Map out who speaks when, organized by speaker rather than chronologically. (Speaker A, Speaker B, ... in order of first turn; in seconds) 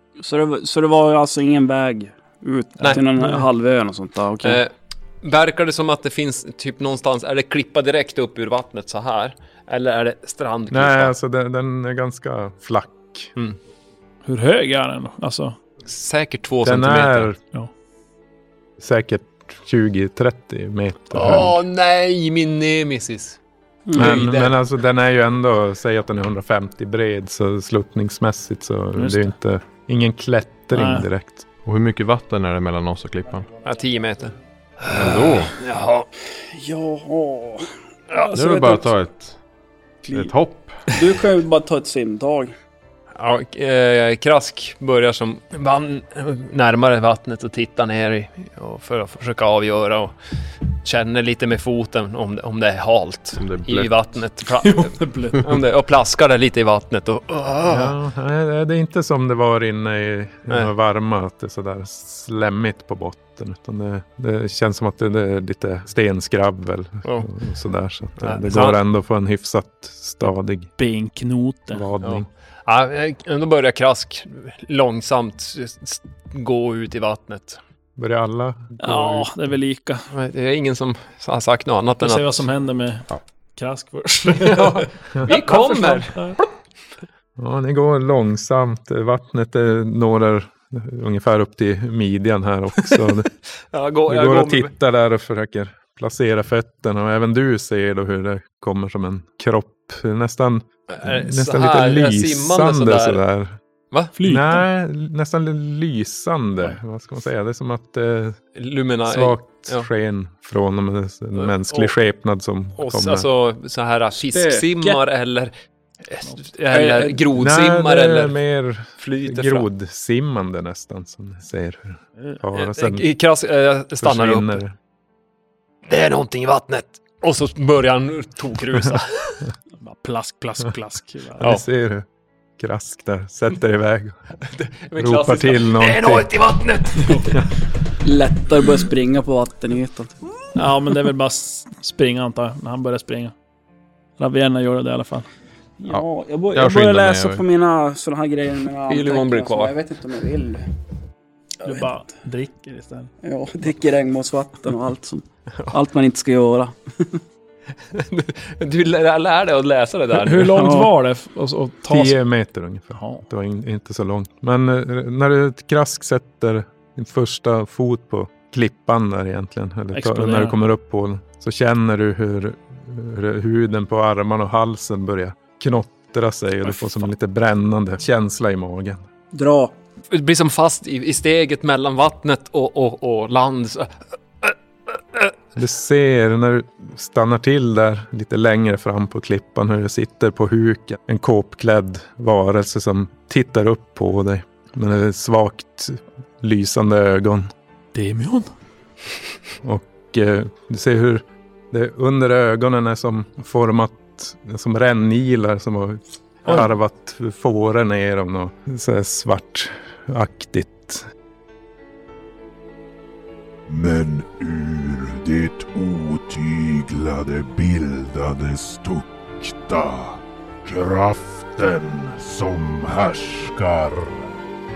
Speaker A: 0.2-4.6, 23.9-24.5, 36.4-38.9, 40.0-40.3, 40.9-42.5, 114.2-115.0, 116.7-117.2, 138.0-140.2, 145.8-150.7, 151.6-151.9, 153.2-157.2, 160.6-160.9, 179.3-179.7
Speaker B: 2.9-3.5, 14.2-15.6, 29.0-29.3, 30.7-31.1, 54.6-55.6, 70.8-71.8, 78.8-80.1, 82.0-86.4, 104.2-104.7, 129.8-131.5, 140.5-143.3, 144.2-145.3, 151.6-153.1, 160.1-162.2, 163.0-163.2, 169.9-170.6, 197.9-198.5
Speaker C: 4.4-11.1, 15.8-17.3, 21.1-23.4, 23.9-24.6, 33.6-36.1, 43.2-58.0, 67.0-67.3, 68.2-68.8, 72.0-77.6, 80.1-82.5, 84.4-86.4, 93.7-94.7, 100.9-103.2, 108.5-109.9, 111.4-111.9, 112.8-115.5, 116.0-118.4, 119.0-119.7, 122.3-124.6, 125.9-129.4, 134.4-137.4, 148.9-149.8, 157.9-160.6, 180.1-185.3
Speaker D: 10.7-13.3, 16.6-17.4, 18.8-21.6, 23.9-31.4, 57.7-70.7, 71.7-72.3, 78.0-79.3, 87.4-93.3, 94.1-103.6, 104.2-108.4, 109.1-113.3, 117.3-123.1, 124.0-124.8, 131.4-132.1, 132.6-134.2, 135.0-136.3, 161.9-179.1, 185.6-197.5, 199.6-211.1
Speaker E: 31.6-33.5, 34.9-35.5, 38.3-39.4, 40.1-41.0, 53.4-54.1, 145.9-147.4
Speaker F: 213.7-224.3